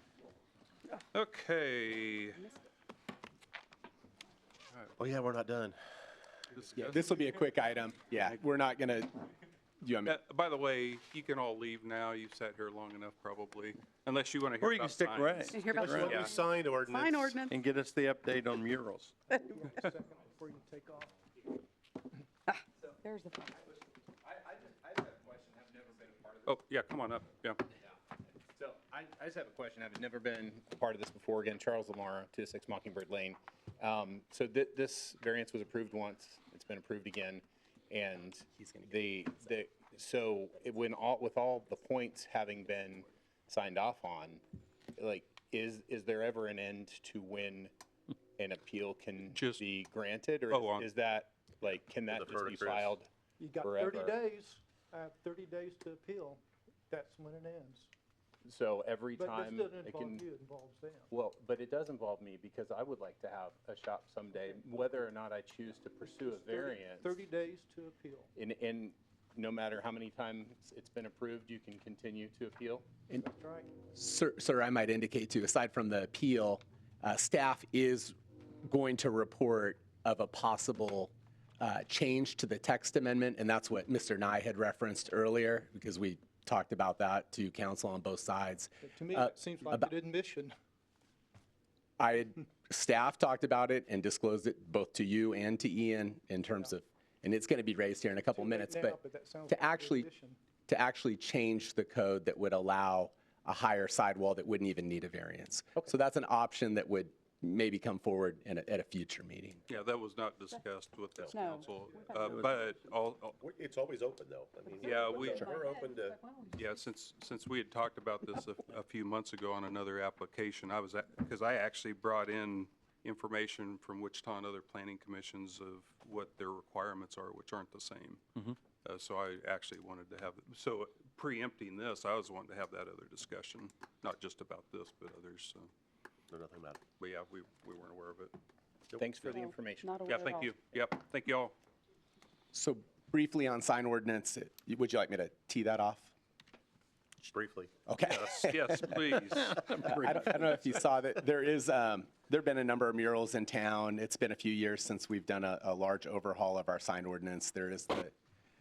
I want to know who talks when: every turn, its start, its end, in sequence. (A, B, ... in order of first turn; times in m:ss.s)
0:01.1-0:02.5 A
0:05.0-0:05.8 B
0:06.5-0:07.2 A
0:06.7-0:09.1 C
0:09.8-0:10.2 C
0:10.0-0:16.3 A
0:14.6-0:16.3 D
0:15.5-0:16.3 E
0:15.7-0:17.5 B
0:16.9-0:17.5 E
0:16.9-0:17.4 F
0:17.5-0:19.2 D
0:19.5-0:21.2 E
0:23.0-0:23.4 E
0:23.2-0:23.5 F
0:24.2-0:26.5 G
0:26.4-0:27.6 A
0:28.5-0:44.4 G
0:38.6-0:39.3 C
0:45.0-0:47.7 G
0:48.4-0:54.2 G
0:49.3-0:49.6 A
0:50.5-0:50.9 A
0:52.1-0:53.0 B
0:53.4-0:57.9 E
0:58.4-1:00.2 G
0:59.2-1:01.1 E
1:01.1-1:07.2 G
1:06.4-1:08.3 E
1:08.3-1:12.8 G
1:13.1-1:13.7 E
1:13.9-1:18.1 C
1:18.6-1:29.9 C
1:28.8-1:30.5 E
1:32.0-1:40.1 C
1:38.3-1:40.4 E
1:40.7-1:49.6 C
1:49.7-1:53.4 A
1:51.3-1:52.7 E
1:52.3-1:52.6 D
1:53.4-1:56.2 B
1:54.8-1:55.5 A
1:55.6-1:56.4 E
1:56.5-2:08.2 A
2:08.8-2:15.7 A
2:16.3-2:16.8 B
2:17.0-2:18.3 A
2:18.9-2:19.4 B
2:19.0-2:19.9 G
2:19.4-2:20.5 F
2:20.0-2:21.5 A
2:22.5-2:26.1 C
2:27.2-2:27.7 B
2:27.9-2:29.0 C
2:28.0-2:30.4 A
2:29.6-2:38.1 C